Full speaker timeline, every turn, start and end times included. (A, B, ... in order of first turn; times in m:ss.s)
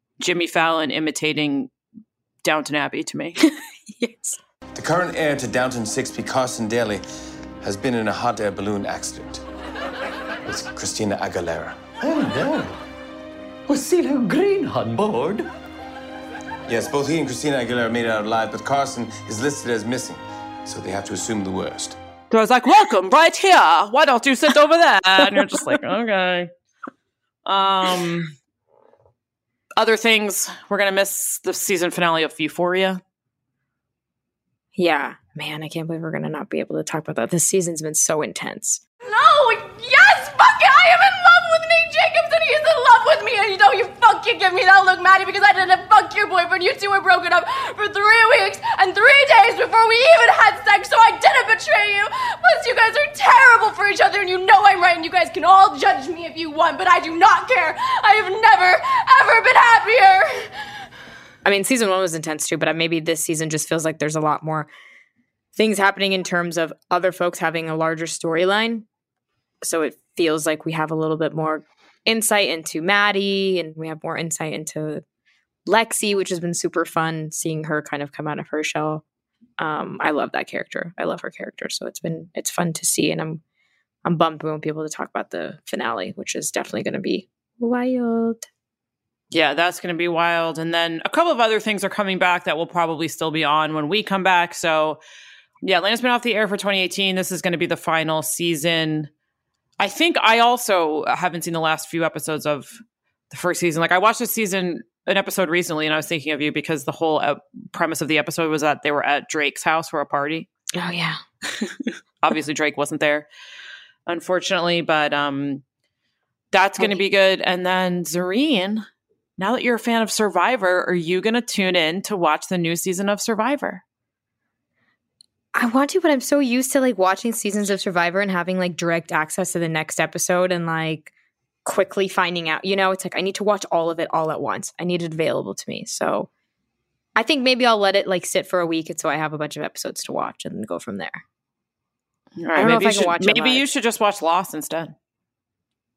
0:00.2-0:01.7 A
0:02.4-0:03.4 A
0:03.4-0:04.4 B
0:04.8-0:07.0 C
0:07.6-0:09.4 C
0:10.4-0:11.9 C
0:12.0-0:12.8 D
0:13.7-0:15.4 D
0:16.7-0:22.0 C
0:22.3-0:26.5 A
0:27.5-0:28.3 A
0:29.8-0:33.0 A
0:34.8-0:38.8 B
0:39.0-1:00.5 E
1:01.4-1:04.7 B
1:05.6-1:08.9 B
1:09.6-1:15.0 B
1:15.7-1:19.0 B
1:19.6-1:23.4 B
1:24.0-1:28.5 B
1:29.3-1:35.0 A
1:35.6-1:39.1 A
1:39.8-1:42.8 A
1:43.3-1:50.5 A
1:50.7-1:51.2 B
1:52.2-1:53.3 A
1:54.1-1:55.6 A
1:56.5-1:58.8 A
1:59.4-2:03.8 A
2:05.5-2:11.1 B
2:11.6-2:16.3 B
2:17.2-2:21.2 B
2:22.4-2:25.0 A
2:22.6-2:23.6 B